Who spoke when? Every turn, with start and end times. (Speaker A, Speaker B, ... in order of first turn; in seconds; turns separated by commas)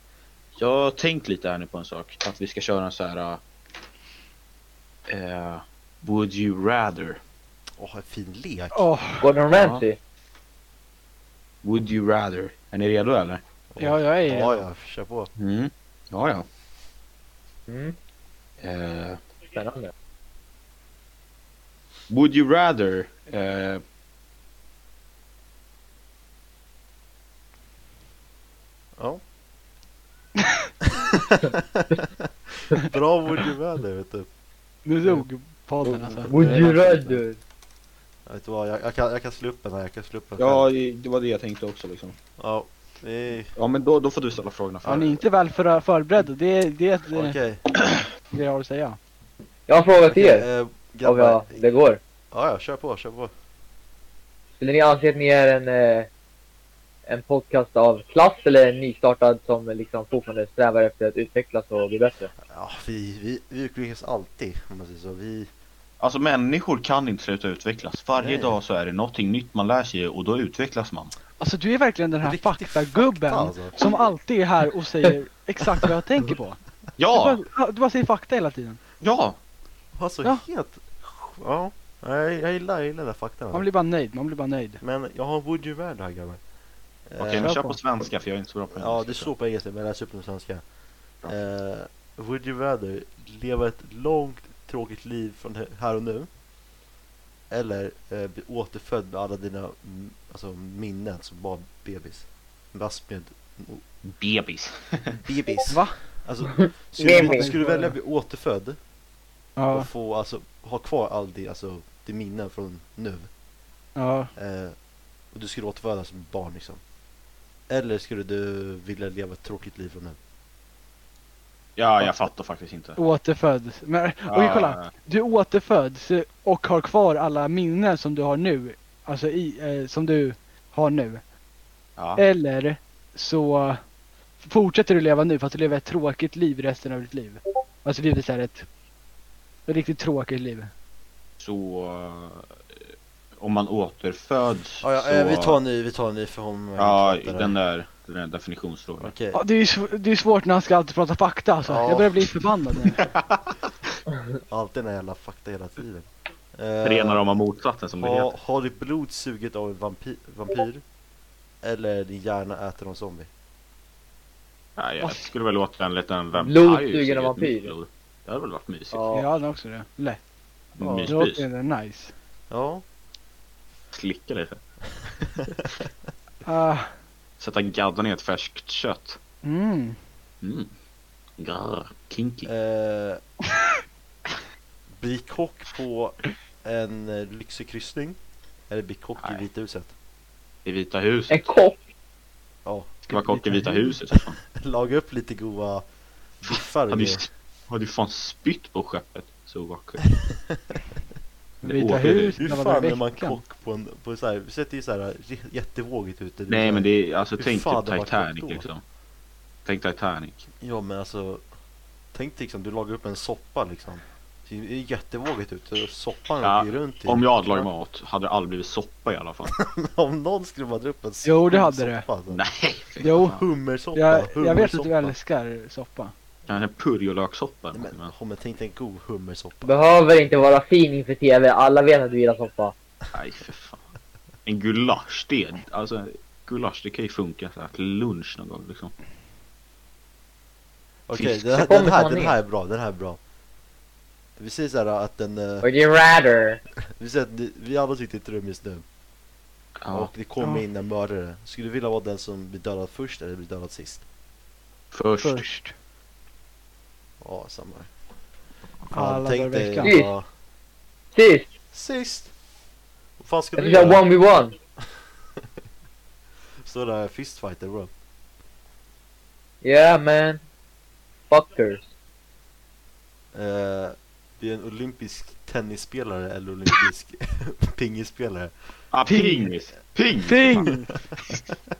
Speaker A: 0.6-3.4, Speaker A: 5.1-7.2, Speaker B: 7.8-8.9, Speaker C: 8.7-9.3, Speaker D: 9.2-10.0, Speaker A: 9.5-9.8, Speaker A: 11.6-13.4, Speaker B: 13.7-15.3, Speaker C: 13.8-14.6, Speaker A: 15.4-16.4, Speaker D: 17.7-17.9, Speaker A: 18.6-19.2, Speaker D: 19.5-19.9, Speaker A: 22.1-23.8, Speaker B: 30.9-34.3, Speaker C: 34.9-36.7, Speaker B: 35.9-36.9, Speaker D: 36.3-37.4, Speaker B: 38.2-40.7, Speaker A: 40.4-42.1, Speaker B: 42.4-43.5, Speaker A: 43.6-45.2, Speaker C: 44.8-47.4, Speaker B: 47.1-47.6, Speaker C: 48.3-49.0, Speaker D: 49.7-50.5, Speaker B: 50.1-51.5, Speaker D: 51.0-52.0, Speaker B: 52.3-53.3, Speaker D: 54.6-56.1, Speaker D: 57.1-62.3, Speaker B: 62.4-65.5, Speaker A: 66.0-71.1, Speaker B: 68.2-68.6, Speaker C: 71.4-76.6, Speaker B: 72.2-73.8, Speaker A: 77.0-77.4, Speaker C: 77.1-78.8, Speaker A: 79.0-79.4, Speaker B: 79.9-83.7, Speaker C: 83.5-84.8, Speaker B: 84.8-86.4, Speaker B: 87.0-87.5, Speaker A: 87.2-89.3, Speaker C: 87.4-87.8, Speaker B: 88.7-90.6, Speaker B: 91.2-96.3, Speaker B: 97.5-103.8, Speaker A: 104.0-105.2, Speaker B: 105.1-108.8, Speaker C: 105.7-106.0, Speaker D: 106.5-107.5, Speaker C: 107.0-107.9, Speaker C: 109.6-109.9, Speaker B: 109.7-113.3, Speaker C: 114.0-114.3, Speaker B: 114.4-114.8, Speaker B: 115.3-116.8, Speaker B: 117.7-120.2, Speaker A: 121.8-123.0, Speaker C: 123.0-131.2, Speaker A: 124.3-124.9, Speaker A: 132.0-132.2, Speaker C: 132.2-133.8, Speaker C: 134.4-138.7, Speaker C: 139.7-140.7, Speaker A: 141.4-142.6, Speaker A: 143.4-145.6, Speaker B: 144.8-147.6, Speaker A: 146.8-149.1, Speaker B: 149.0-149.4, Speaker C: 149.3-153.0, Speaker B: 151.6-152.3, Speaker A: 153.0-153.7, Speaker B: 154.4-157.2, Speaker A: 156.8-158.3, Speaker B: 157.9-160.8, Speaker B: 161.6-163.3, Speaker A: 164.8-169.0, Speaker C: 165.0-165.3, Speaker D: 166.4-167.7, Speaker D: 168.9-169.3, Speaker C: 169.1-170.2, Speaker A: 170.8-171.4, Speaker B: 170.8-171.2, Speaker C: 171.1-172.1, Speaker B: 172.5-172.8, Speaker A: 173.9-174.6, Speaker C: 176.4-176.9, Speaker A: 177.4-179.2, Speaker C: 179.4-180.0, Speaker A: 180.4-180.7, Speaker A: 181.4-182.5, Speaker B: 182.4-183.2, Speaker B: 184.9-188.2, Speaker B: 188.7-189.9, Speaker A: 190.6-191.5, Speaker D: 191.3-191.8, Speaker B: 192.6-193.0, Speaker C: 193.1-193.9, Speaker A: 193.1-194.4, Speaker B: 194.1-195.9, Speaker B: 196.4-197.2, Speaker A: 196.9-200.1, Speaker A: 201.6-202.4, Speaker C: 201.6-203.4, Speaker B: 202.4-208.7, Speaker A: 206.5-208.8, Speaker A: 209.6-210.5, Speaker B: 210.6-211.4, Speaker B: 212.1-217.7, Speaker A: 216.4-219.5, Speaker B: 219.5-222.4, Speaker C: 221.2-222.1, Speaker A: 222.3-223.3, Speaker C: 223.0-223.4, Speaker B: 223.1-225.1, Speaker C: 223.9-226.1, Speaker A: 226.5-228.1, Speaker B: 227.7-229.7, Speaker D: 229.6-232.7, Speaker A: 233.1-233.8, Speaker A: 234.4-238.9, Speaker B: 241.1-243.2, Speaker A: 241.1-241.5, Speaker D: 241.5-242.4, Speaker B: 244.4-245.7, Speaker D: 245.6-246.6, Speaker B: 247.0-248.8, Speaker A: 249.8-250.1, Speaker B: 249.9-254.0, Speaker A: 254.9-255.5, Speaker C: 255.2-255.7, Speaker B: 257.2-257.9, Speaker B: 258.9-260.2, Speaker C: 258.9-259.9, Speaker D: 259.8-260.1, Speaker D: 261.1-261.5, Speaker B: 261.7-262.3, Speaker B: 263.2-264.0, Speaker D: 263.6-264.6, Speaker B: 264.8-265.5, Speaker B: 266.6-267.9, Speaker D: 269.6-270.4, Speaker D: 271.3-271.9, Speaker B: 273.3-278.5, Speaker A: 278.9-280.7, Speaker C: 279.1-279.5, Speaker C: 280.2-280.9